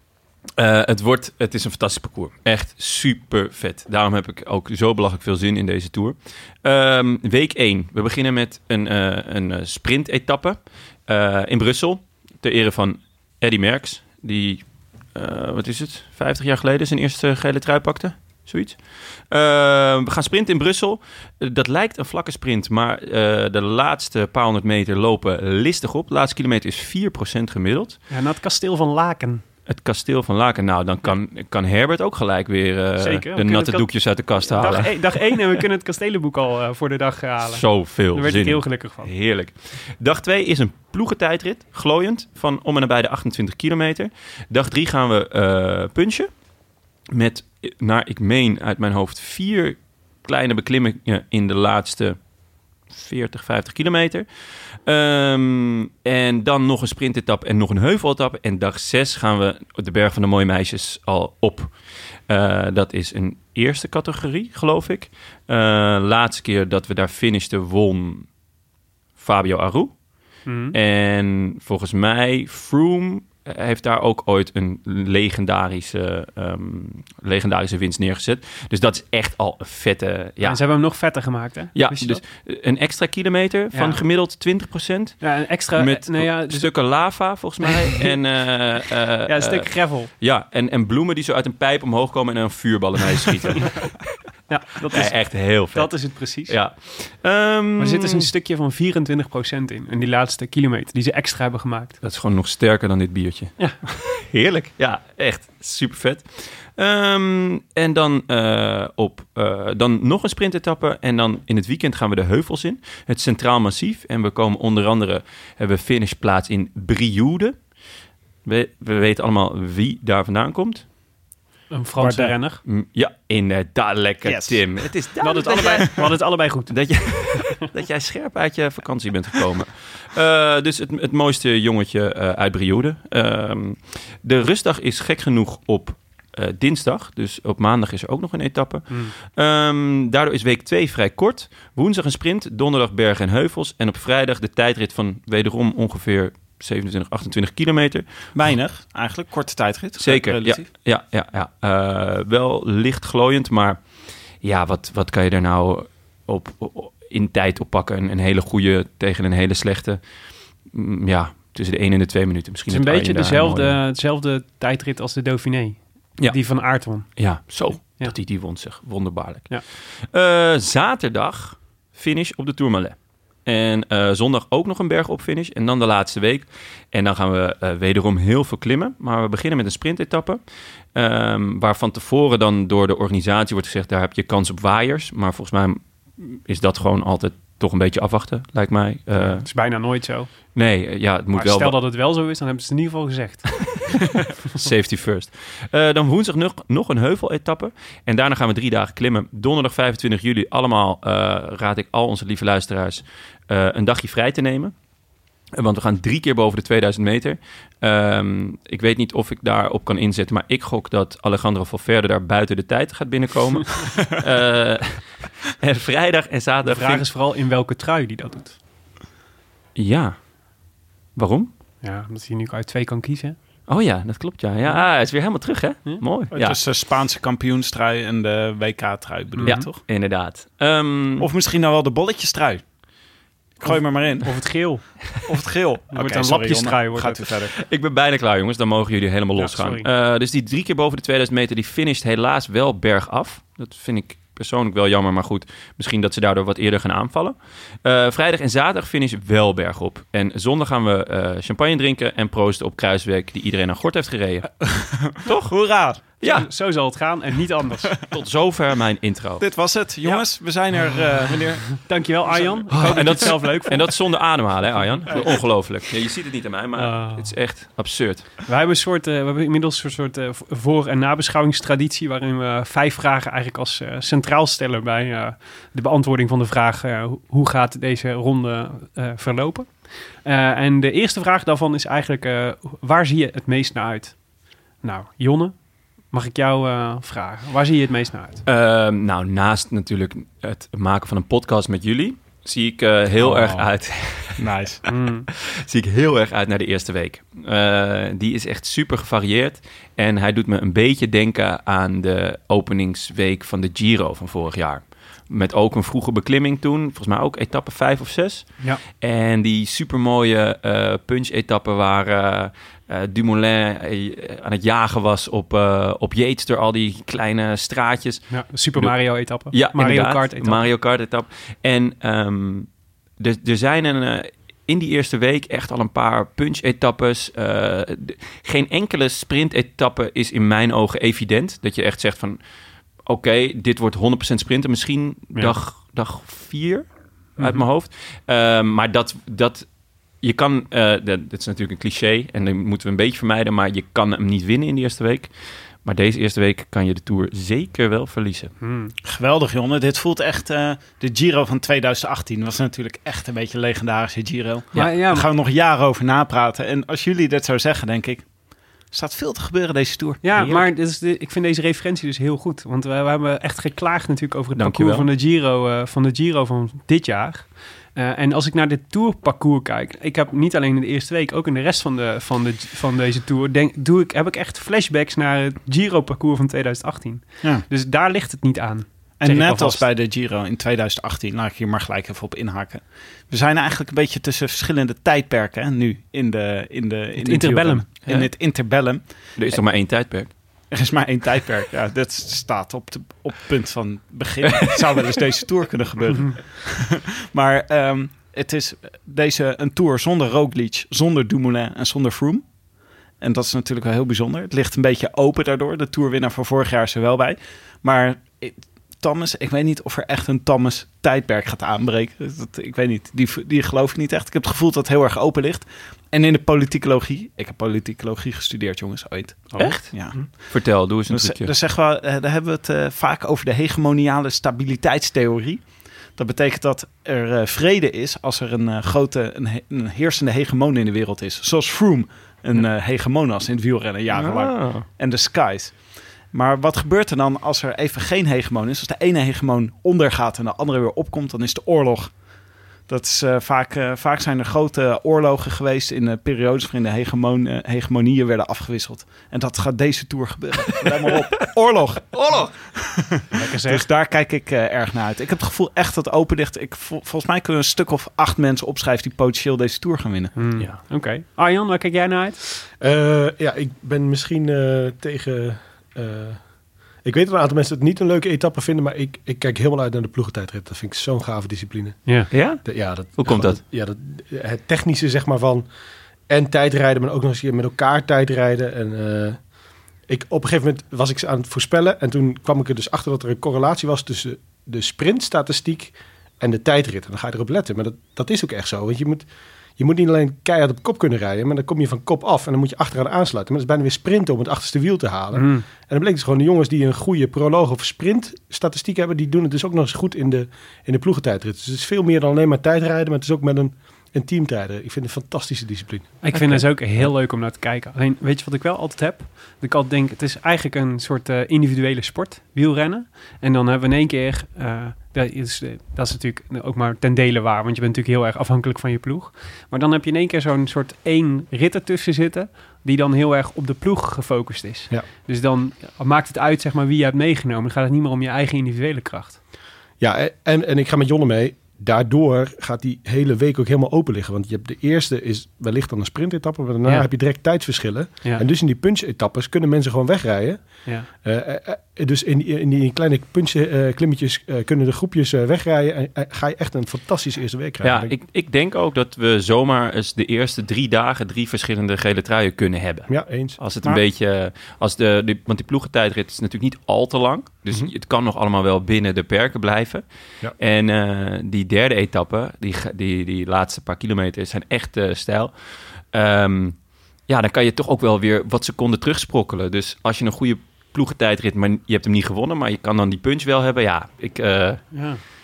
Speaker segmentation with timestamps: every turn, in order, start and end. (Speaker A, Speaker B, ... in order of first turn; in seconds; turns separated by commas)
Speaker A: 0.6-28.0, Speaker B: 28.1-29.4, Speaker A: 29.7-35.2, Speaker B: 33.0-39.1, Speaker A: 37.5-46.3, Speaker A: 47.1-52.2, Speaker A: 52.9-54.3, Speaker A: 54.8-68.3, Speaker A: 69.2-70.0, Speaker B: 70.5-70.8, Speaker A: 70.7-80.6, Speaker B: 80.4-82.2, Speaker A: 81.8-94.1, Speaker B: 83.7-84.0, Speaker B: 85.2-87.0, Speaker B: 87.6-88.2, Speaker B: 89.3-90.1, Speaker B: 94.5-96.6, Speaker A: 94.9-98.3, Speaker B: 97.8-102.0, Speaker A: 102.0-117.6, Speaker A: 118.4-120.8, Speaker B: 121.7-122.6, Speaker C: 122.0-122.3, Speaker A: 122.6-148.1, Speaker C: 124.2-124.6, Speaker B: 125.2-127.6, Speaker C: 148.3-150.6, Speaker A: 150.0-153.8, Speaker A: 154.4-160.0, Speaker A: 160.7-163.8, Speaker B: 162.7-168.1, Speaker A: 167.1-180.4, Speaker A: 180.9-189.5, Speaker B: 189.2-190.6, Speaker A: 190.5-191.8, Speaker B: 191.3-193.8, Speaker A: 194.4-204.8, Speaker A: 205.6-217.1, Speaker B: 216.6-218.6, Speaker A: 219.8-220.2, Speaker A: 221.1-221.5, Speaker B: 221.8-223.4, Speaker A: 223.7-226.6, Speaker C: 226.3-229.8, Speaker B: 229.4-229.7, Speaker A: 229.4-231.3, Speaker C: 231.2-232.6, Speaker C: 233.6-234.4, Speaker B: 233.6-235.1, Speaker C: 235.3-237.5, Speaker B: 235.9-237.3, Speaker A: 237.6-255.5, Speaker B: 239.4-239.9, Speaker C: 254.7-256.0, Speaker A: 256.2-256.5, Speaker B: 256.2-257.9, Speaker A: 258.1-259.4, Speaker C: 259.4-263.3, Speaker B: 261.8-263.9, Speaker A: 262.7-268.3, Speaker C: 265.1-265.4, Speaker B: 266.8-267.4, Speaker B: 268.4-279.7, Speaker B: 280.2-284.2, Speaker B: 284.8-285.6, Speaker B: 286.1-288.4, Speaker A: 288.4-294.5, Speaker C: 293.2-293.7, Speaker C: 294.4-294.8, Speaker B: 294.9-295.3, Speaker A: 295.3-332.4, Speaker B: 318.3-320.6, Speaker A: 333.1-339.7, Speaker B: 337.4-337.6, Speaker A: 340.2-345.3, Speaker A: 345.8-348.6, Speaker B: 348.6-348.9, Speaker C: 349.0-358.3, Speaker B: 354.7-355.3, Speaker C: 358.9-360.3, Speaker B: 360.2-379.9, Speaker A: 360.4-360.6, Speaker A: 364.6-365.1, Speaker C: 379.2-389.1, Speaker B: 387.2-388.3, Speaker A: 389.4-390.3, Speaker C: 390.7-402.4, Speaker C: 403.2-420.5, Speaker A: 419.6-421.5, Speaker C: 421.1-442.2, Speaker A: 434.1-434.9, Speaker C: 442.9-460.3, Speaker A: 452.2-452.5, Speaker B: 453.3-453.9, Speaker B: 460.4-462.4, Speaker D: 462.8-466.4, Speaker D: 467.0-475.7, Speaker A: 472.3-473.6, Speaker D: 476.3-479.4, Speaker D: 480.1-506.6, Speaker B: 495.3-495.7, Speaker B: 506.2-529.4, Speaker D: 530.0-540.6, Speaker D: 541.2-548.1, Speaker A: 547.8-560.0, Speaker D: 553.1-553.6, Speaker A: 560.6-574.9, Speaker B: 574.9-575.2